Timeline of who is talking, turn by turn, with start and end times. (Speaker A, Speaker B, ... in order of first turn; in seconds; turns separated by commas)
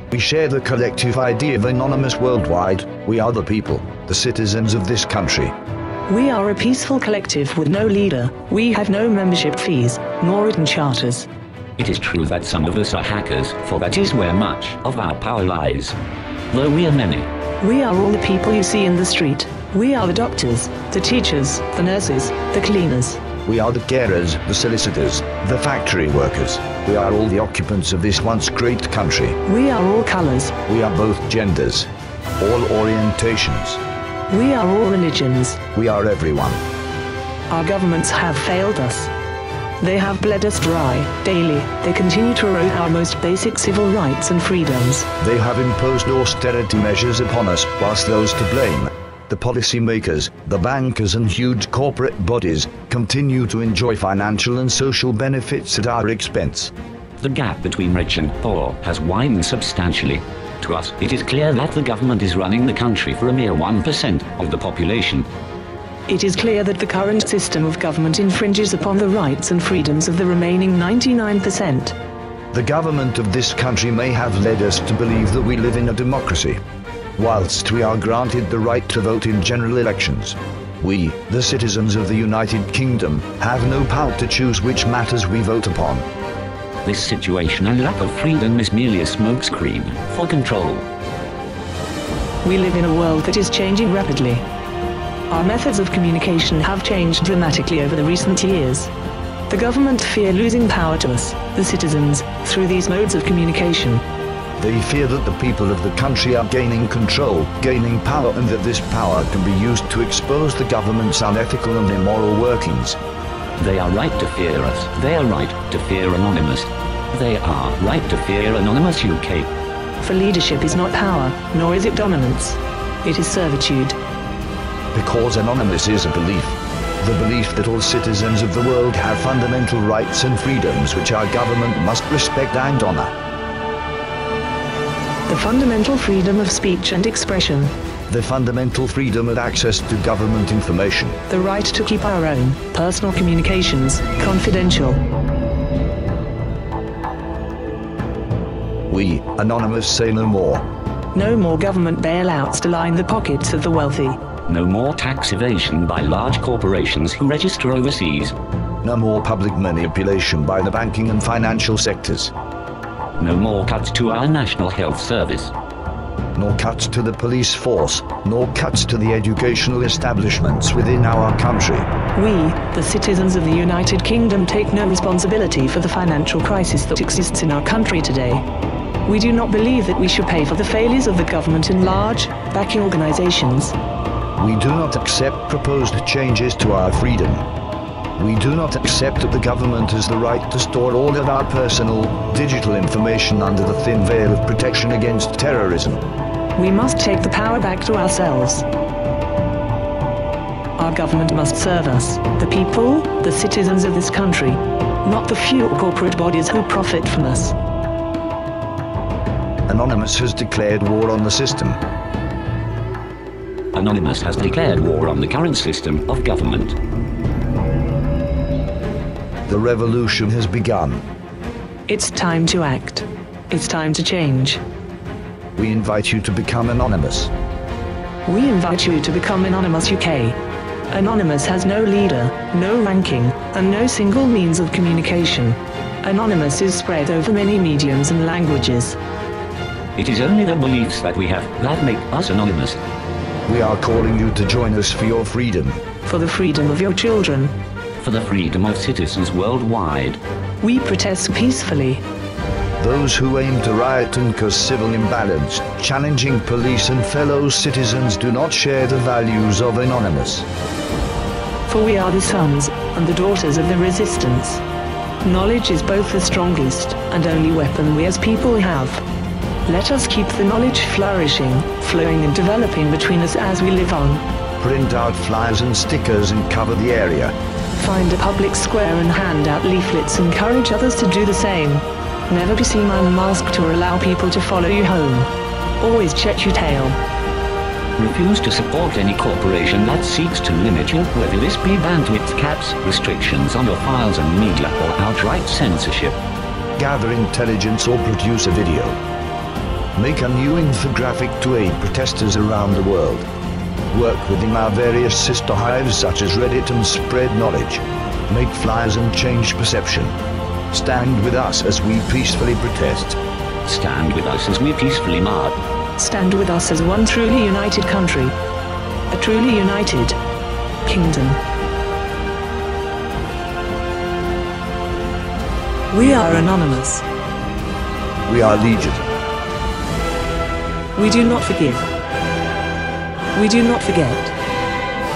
Speaker A: 0.1-5.5, Speaker B: 6.1-11.3, Speaker C: 11.8-16.0, Speaker C: 16.5-17.3, Speaker B: 17.6-23.2, Speaker A: 23.4-29.4, Speaker B: 29.4-30.6, Speaker A: 30.7-33.8, Speaker B: 34.3-35.6, Speaker A: 35.7-36.6, Speaker B: 37.5-39.1, Speaker B: 39.8-45.1, Speaker A: 45.2-56.7, Speaker C: 57.2-65.3, Speaker B: 66.1-72.0, Speaker A: 72.5-76.6, Speaker A: 77.2-86.1, Speaker C: 86.8-90.9, Speaker B: 92.4-94.5, Speaker B: 95.3-98.9, Speaker B: 99.5-104.0, Speaker A: 104.6-113.0, Speaker C: 113.6-119.5, Speaker B: 120.0-124.0, Speaker A: 124.9-133.1, Speaker B: 135.3-137.7, Speaker A: 138.1-141.2, Speaker B: 141.3-145.0, Speaker A: 148.9-150.6, Speaker B: 151.1-154.2, Speaker C: 154.5-158.3, Speaker A: 158.8-162.3, Speaker C: 163.2-165.5, Speaker A: 166.3-171.9, Speaker B: 172.2-178.4, Speaker B: 179.0-183.8, Speaker A: 184.4-187.5, Speaker A: 188.2-196.0, Speaker B: 196.6-198.7, Speaker B: 200.8-207.6, Speaker A: 209.7-211.8, Speaker C: 213.7-216.8, Speaker A: 219.5-221.0, Speaker B: 221.9-224.6, Speaker A: 225.6-227.3, Speaker B: 228.3-230.4, Speaker B: 230.9-239.0, Speaker C: 240.0-242.8, Speaker A: 243.5-245.8, Speaker B: 246.1-247.5, Speaker C: 248.0-250.2, Speaker B: 250.6-252.0, Speaker A: 252.8-260.5, Speaker B: 261.7-264.6, Speaker B: 265.2-269.0, Speaker B: 269.6-274.2, Speaker A: 274.6-277.4, Speaker B: 277.7-287.0, Speaker C: 288.0-296.2, Speaker A: 296.8-299.0, Speaker A: 299.9-303.3, Speaker A: 303.9-310.2, Speaker A: 310.7-313.2, Speaker C: 313.6-315.6, Speaker B: 316.0-318.4, Speaker B: 319.1-320.2, Speaker B: 320.8-321.4, Speaker B: 325.9-327.1, Speaker A: 328.3-329.1, Speaker B: 330.9-331.9, Speaker B: 333.3-334.3